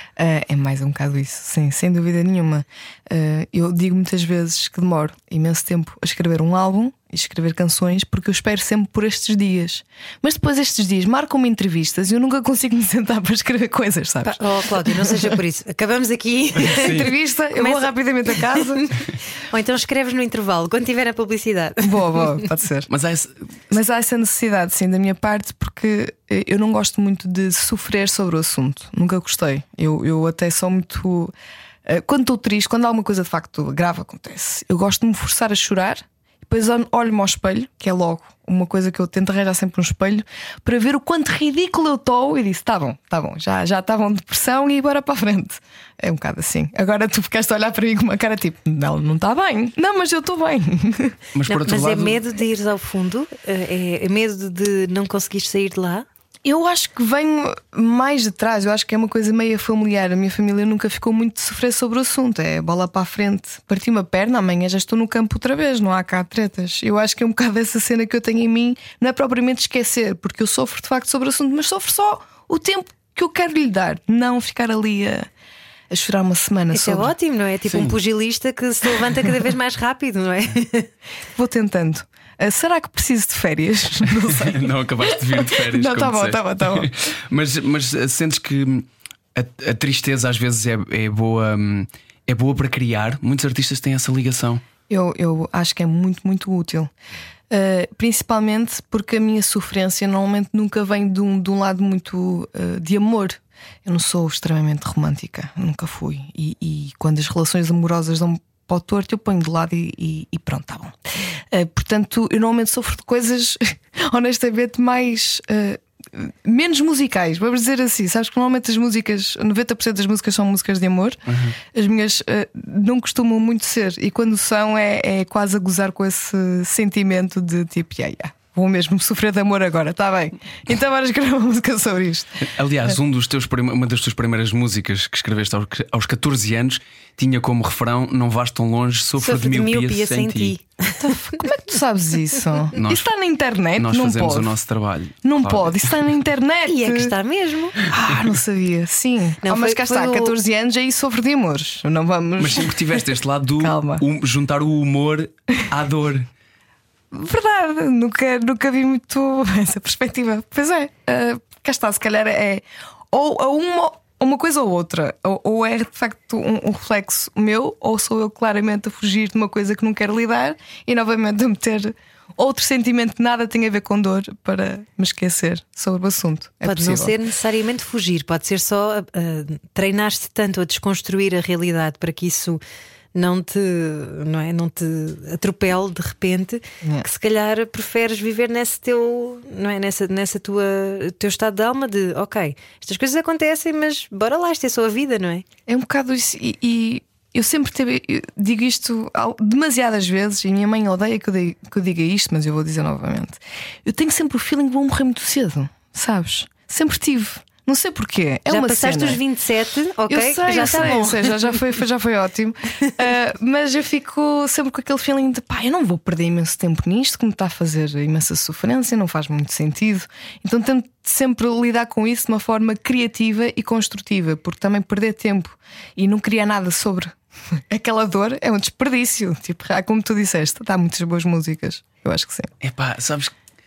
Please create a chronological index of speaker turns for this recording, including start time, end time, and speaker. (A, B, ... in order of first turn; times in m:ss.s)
0:00.2-0:15.3 A
0:14.2-0:22.2 B
0:16.6-0:17.1 C
0:16.6-0:18.9 A
0:21.8-0:22.9 A
0:22.9-0:23.4 C
0:23.7-0:31.3 A
0:31.8-0:51.2 A
0:51.3-0:52.2 C
0:51.5-0:56.0 B
0:56.4-1:15.3 A
1:15.9-1:17.1 A
1:16.7-1:20.9 B
1:17.7-1:18.0 C
1:21.3-1:26.9 A
1:24.3-1:34.6 C
1:34.9-1:36.9 A
1:37.5-2:01.2 A
2:01.3-2:01.6 C
2:01.7-2:12.9 A
2:12.5-2:20.5 C
2:19.2-2:21.4 B
2:21.0-2:24.5 A
2:22.7-2:23.1 C
2:23.8-2:26.0 C
2:25.2-2:27.1 A
2:26.6-2:27.8 B
2:27.8-2:32.8 A
2:29.4-2:30.4 B
2:32.4-2:36.3 C
2:33.6-2:34.0 A
2:37.1-2:57.1 A
2:56.6-3:02.6 B
3:03.1-3:15.4 B
3:15.7-3:29.2 A
3:28.5-3:31.6 B
3:30.1-3:47.2 A
3:47.7-3:52.5 A
3:52.6-3:53.3 C